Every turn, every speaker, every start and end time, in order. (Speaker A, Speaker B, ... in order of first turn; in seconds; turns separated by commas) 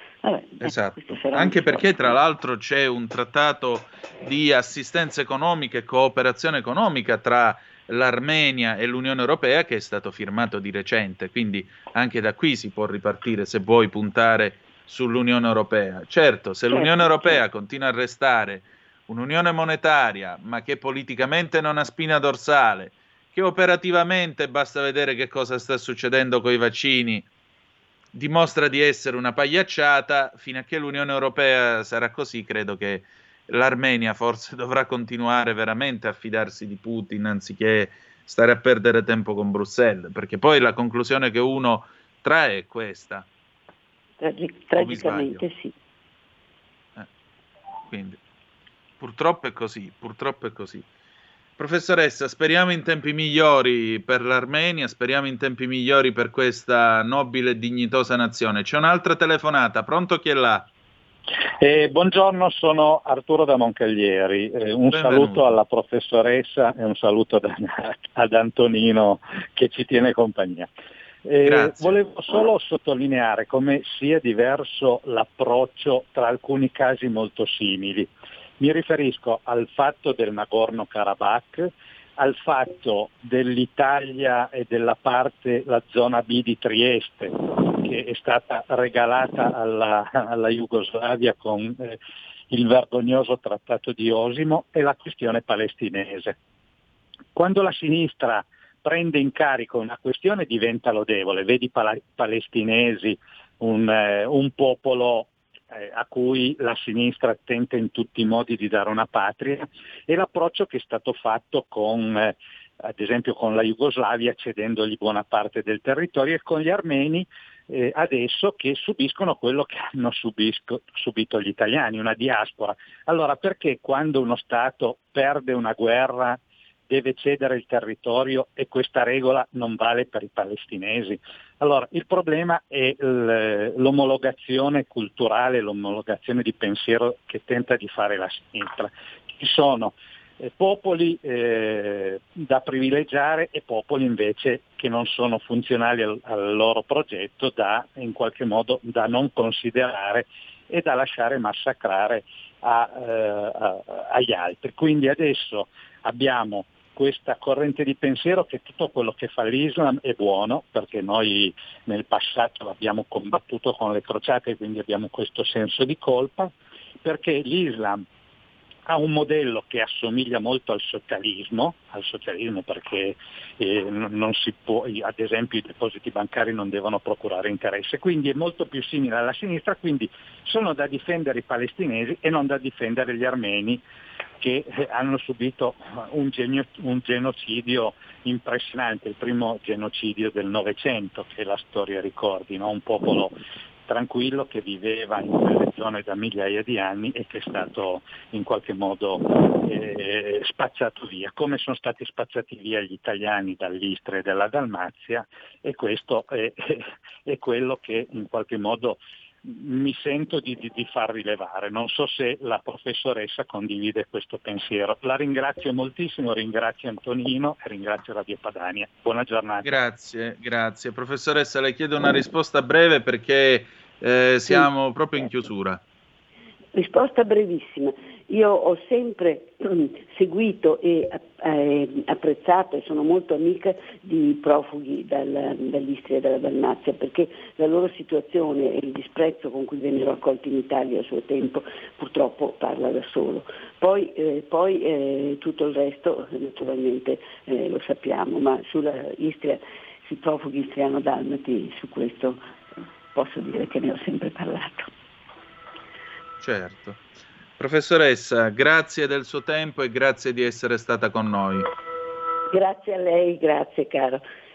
Speaker A: 0.2-2.2, Speaker B: 0.6-27.3, Speaker A: 16.7-17.4, Speaker B: 28.1-43.3, Speaker A: 44.2-45.7, Speaker B: 44.8-45.4, Speaker B: 47.9-48.2, Speaker B: 49.0-50.9, Speaker B: 51.6-60.7, Speaker C: 61.6-70.7, Speaker B: 64.9-65.5, Speaker C: 71.2-92.0, Speaker B: 71.4-72.0, Speaker C: 92.5-96.4, Speaker C: 97.3-168.0, Speaker C: 168.9-183.8, Speaker C: 184.4-193.3, Speaker C: 193.9-219.8, Speaker B: 219.6-225.8, Speaker A: 226.8-252.4, Speaker A: 253.1-254.9, Speaker B: 256.4-257.0, Speaker B: 257.6-261.7, Speaker A: 262.5-264.2